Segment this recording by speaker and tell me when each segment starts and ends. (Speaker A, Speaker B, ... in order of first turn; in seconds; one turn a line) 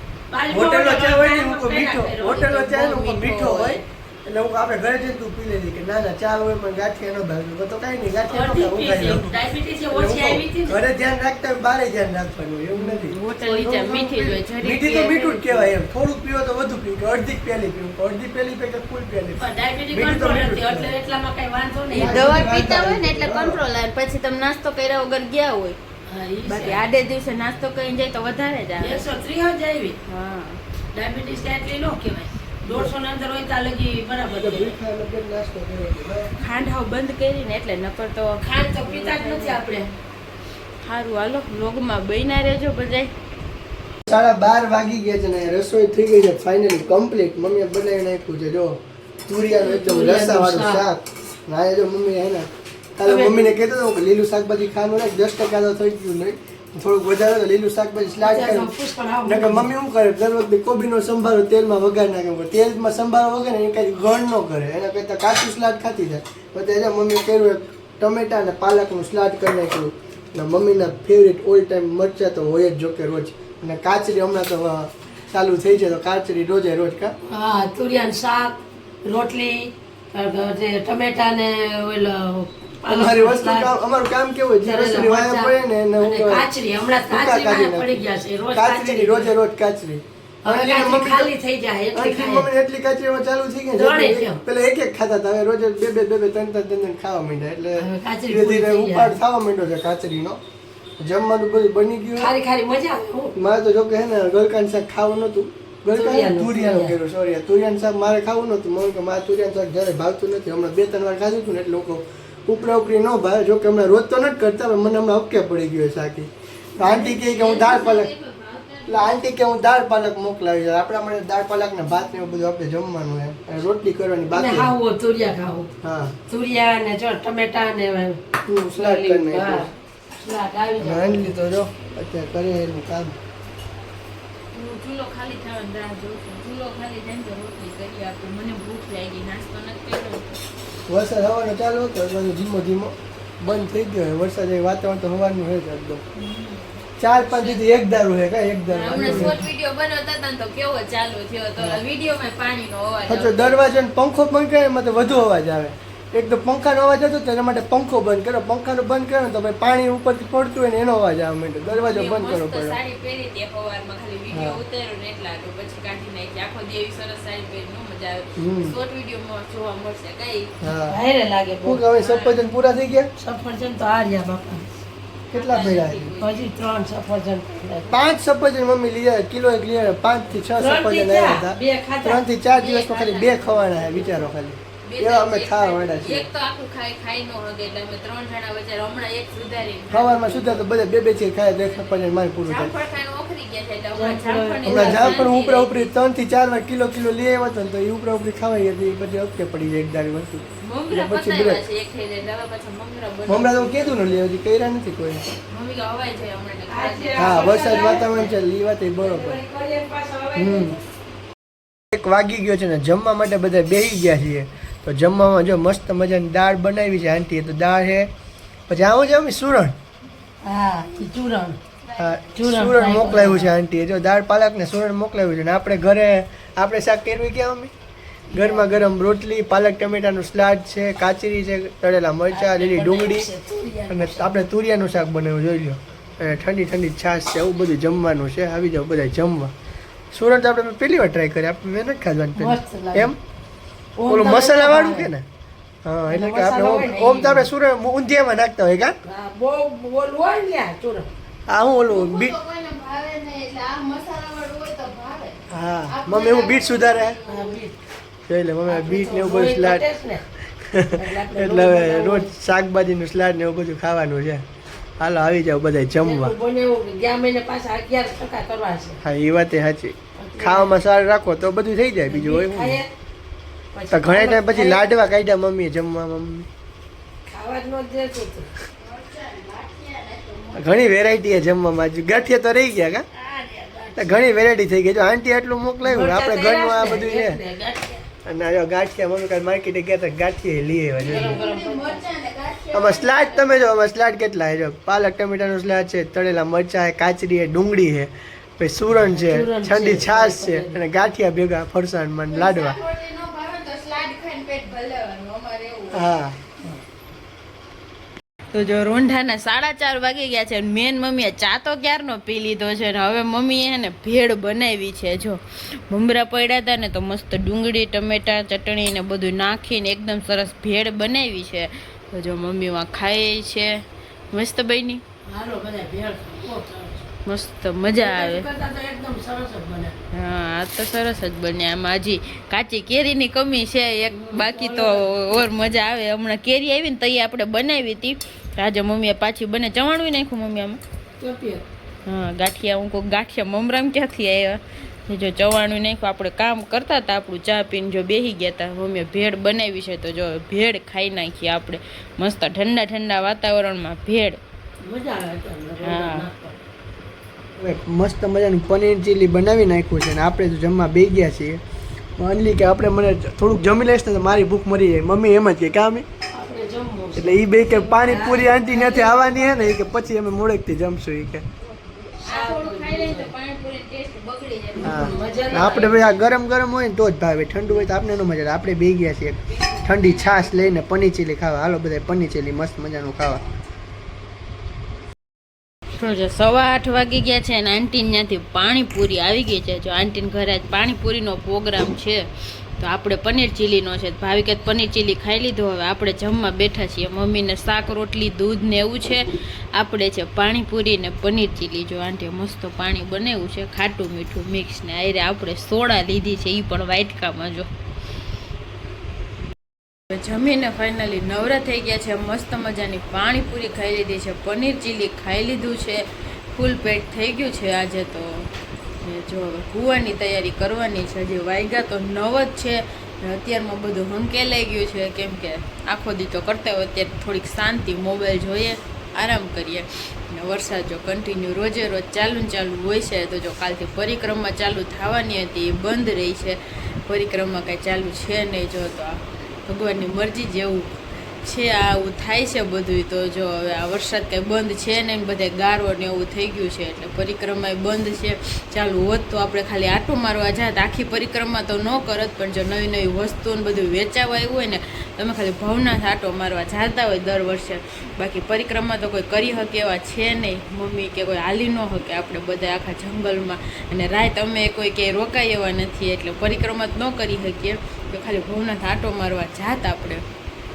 Speaker A: 0.3-2.5
Speaker B: 0.5-9.3
Speaker C: 2.4-3.8
Speaker A: 8.3-10.8
Speaker B: 9.9-21.0
Speaker C: 12.7-15.7
Speaker A: 19.4-22.4
Speaker B: 21.9-23.6
Speaker C: 21.9-25.8
Speaker A: 26.1-26.8
Speaker C: 26.5-29.1
Speaker A: 28.8-30.0
Speaker C: 30.1-30.6
Speaker A: 30.9-34.7
Speaker B: 34.3-36.3
Speaker C: 36.4-39.8
Speaker A: 38.4-39.9
Speaker C: 40.8-43.1
Speaker B: 44.1-58.7
Speaker A: 49.5-50.8
Speaker A: 53.0-53.6
Speaker A: 58.2-59.7
Speaker B: 59.2-77.1
Speaker A: 77.3-83.7
Speaker B: 82.8-86.5
Speaker A: 84.6-89.3
Speaker B: 87.1-87.9
Speaker B: 88.5-91.3
Speaker A: 90.5-92.5
Speaker B: 91.9-100.4
Speaker A: 93.8-94.4
Speaker A: 97.8-99.2
Speaker B: 101.0-102.3
Speaker A: 102.2-103.3
Speaker B: 103.3-118.1
Speaker A: 105.9-107.0
Speaker A: 116.8-117.2
Speaker C: 116.9-119.3
Speaker B: 118.9-124.7
Speaker A: 124.3-125.7
Speaker B: 125.8-126.2
Speaker A: 126.3-128.2
Speaker B: 128.4-129.7
Speaker A: 128.7-131.3
Speaker B: 130.8-133.1
Speaker C: 134.5-140.4
Speaker B: 140.9-146.0
Speaker C: 146.2-147.6
Speaker B: 147.0-149.4
Speaker C: 148.7-153.6
Speaker A: 149.0-149.3
Speaker B: 153.1-162.8
Speaker C: 161.7-170.6
Speaker B: 164.3-164.6
Speaker B: 168.4-168.8
Speaker B: 170.6-171.0
Speaker A: 170.9-172.1
Speaker B: 171.6-173.1
Speaker C: 172.0-172.3
Speaker A: 173.2-174.6
Speaker B: 175.3-176.1
Speaker C: 175.3-176.4
Speaker A: 176.2-178.0
Speaker B: 177.9-186.3
Speaker A: 180.6-182.2
Speaker C: 182.5-184.3
Speaker C: 184.8-190.7
Speaker B: 189.9-192.7
Speaker C: 191.6-195.9
Speaker A: 193.9-195.3
Speaker B: 194.7-201.6
Speaker C: 200.6-204.2
Speaker B: 203.3-205.2
Speaker C: 205.5-208.3
Speaker A: 206.7-208.1
Speaker B: 207.2-209.4
Speaker A: 209.0-210.8
Speaker B: 210.3-210.8
Speaker B: 211.9-218.1
Speaker B: 218.7-219.7
Speaker A: 220.4-221.6
Speaker B: 222.0-227.7
Speaker A: 222.3-223.5
Speaker A: 228.3-228.8
Speaker B: 228.3-233.3
Speaker A: 232.3-234.3
Speaker B: 233.9-239.5
Speaker B: 240.1-243.2
Speaker A: 242.4-243.1
Speaker A: 244.0-245.1
Speaker B: 244.1-245.2
Speaker B: 245.8-248.9
Speaker A: 246.1-247.5
Speaker A: 249.1-251.1
Speaker B: 251.5-252.4
Speaker C: 251.8-257.6
Speaker B: 255.5-257.2
Speaker A: 257.3-257.7
Speaker B: 258.3-259.9
Speaker A: 258.7-260.2
Speaker B: 260.6-264.4
Speaker A: 260.9-262.3
Speaker B: 265.0-266.4
Speaker A: 266.0-269.0
Speaker B: 269.0-272.8
Speaker A: 270.2-270.8
Speaker A: 272.1-272.9
Speaker A: 273.7-274.9
Speaker B: 273.9-276.5
Speaker A: 277.3-278.5
Speaker C: 278.8-280.8
Speaker B: 280.6-283.1
Speaker A: 283.1-284.2
Speaker B: 284.0-287.4
Speaker A: 285.8-288.1
Speaker B: 288.2-291.4
Speaker C: 291.0-293.6
Speaker A: 291.0-292.0
Speaker B: 292.7-302.8
Speaker A: 299.1-300.8
Speaker C: 302.3-306.1
Speaker B: 305.9-306.4
Speaker C: 308.5-323.8
Speaker C: 324.3-325.0
Speaker A: 325.3-327.1
Speaker C: 327.2-328.5
Speaker A: 327.9-329.9
Speaker C: 330.1-340.8
Speaker A: 334.1-335.3
Speaker A: 341.2-341.6
Speaker C: 342.1-354.4
Speaker A: 354.8-356.6
Speaker C: 355.8-356.3
Speaker B: 357.6-361.6
Speaker B: 362.2-366.1
Speaker A: 366.3-369.8
Speaker B: 367.2-371.4
Speaker C: 367.5-368.3
Speaker C: 371.9-376.1
Speaker A: 372.2-373.3
Speaker A: 374.8-375.9
Speaker B: 374.8-383.4
Speaker C: 386.0-392.3
Speaker C: 392.8-407.7
Speaker C: 410.1-418.5
Speaker C: 419.0-470.2